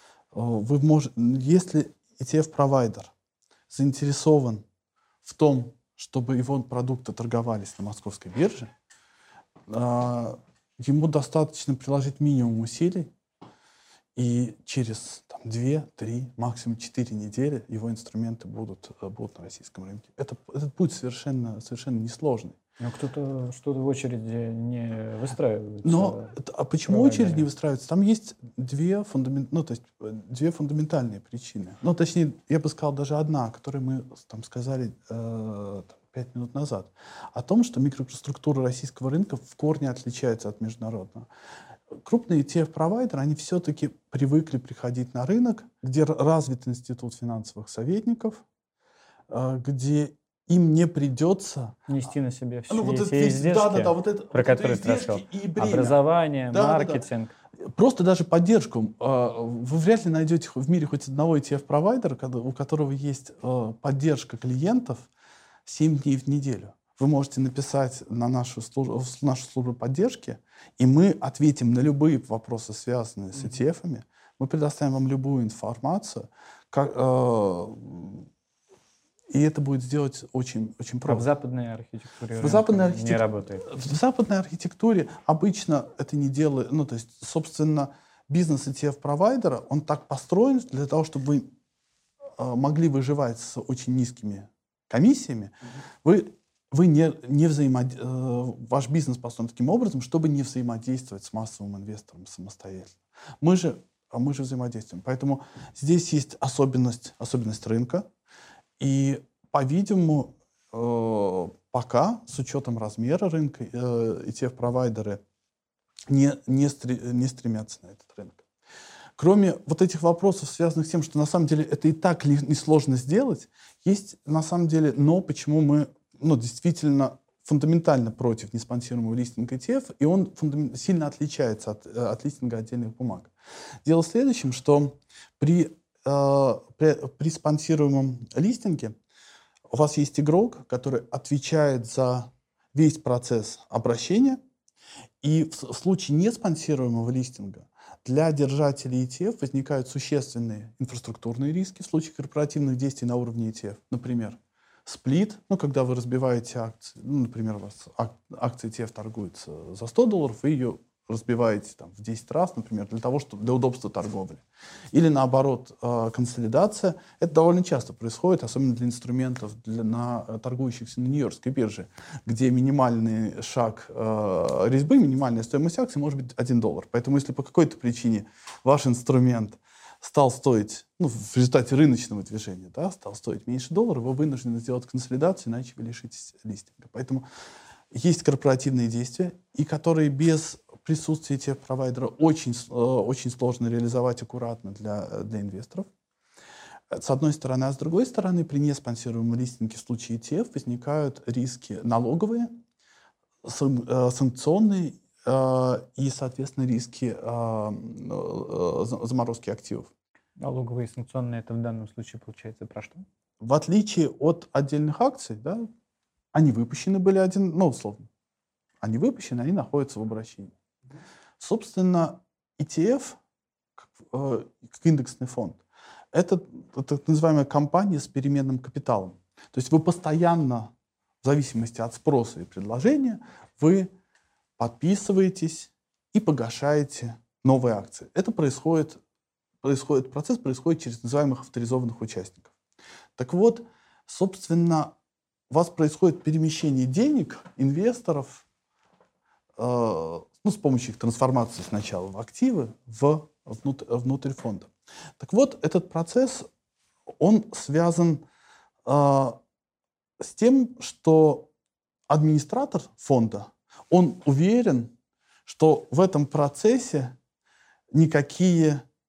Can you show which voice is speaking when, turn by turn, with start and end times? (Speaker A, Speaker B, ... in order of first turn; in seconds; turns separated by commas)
Speaker A: 0.3-3.1, Speaker A: 3.7-4.6, Speaker A: 5.2-8.7, Speaker A: 9.7-13.1, Speaker A: 14.1-22.6, Speaker B: 22.8-26.4, Speaker A: 25.8-41.3, Speaker B: 26.9-27.5, Speaker A: 41.9-48.4, Speaker A: 49.3-51.8, Speaker B: 51.9-57.3, Speaker A: 52.7-56.0, Speaker A: 56.5-57.0, Speaker A: 57.6-65.1, Speaker A: 65.7-78.3, Speaker A: 79.3-81.2, Speaker B: 81.0-83.7, Speaker A: 82.4-91.5, Speaker A: 92.4-108.0, Speaker A: 108.8-115.2, Speaker A: 116.1-118.4, Speaker A: 119.2-133.3, Speaker A: 133.8-139.0, Speaker A: 139.7-144.4, Speaker A: 145.2-187.2, Speaker A: 187.9-195.9, Speaker A: 196.9-202.5, Speaker A: 203.4-209.9, Speaker B: 210.4-213.1, Speaker A: 213.4-215.7, Speaker A: 216.3-218.1, Speaker A: 218.8-220.5, Speaker A: 221.4-223.2, Speaker A: 223.8-225.6, Speaker A: 226.1-230.7, Speaker A: 231.2-233.9, Speaker A: 234.6-239.0, Speaker A: 239.6-242.5, Speaker A: 243.2-244.9, Speaker A: 245.5-248.4, Speaker A: 249.6-256.5, Speaker A: 257.2-258.2, Speaker A: 258.8-259.4, Speaker A: 260.2-261.5, Speaker A: 262.1-264.9, Speaker A: 265.4-267.1, Speaker A: 267.9-268.8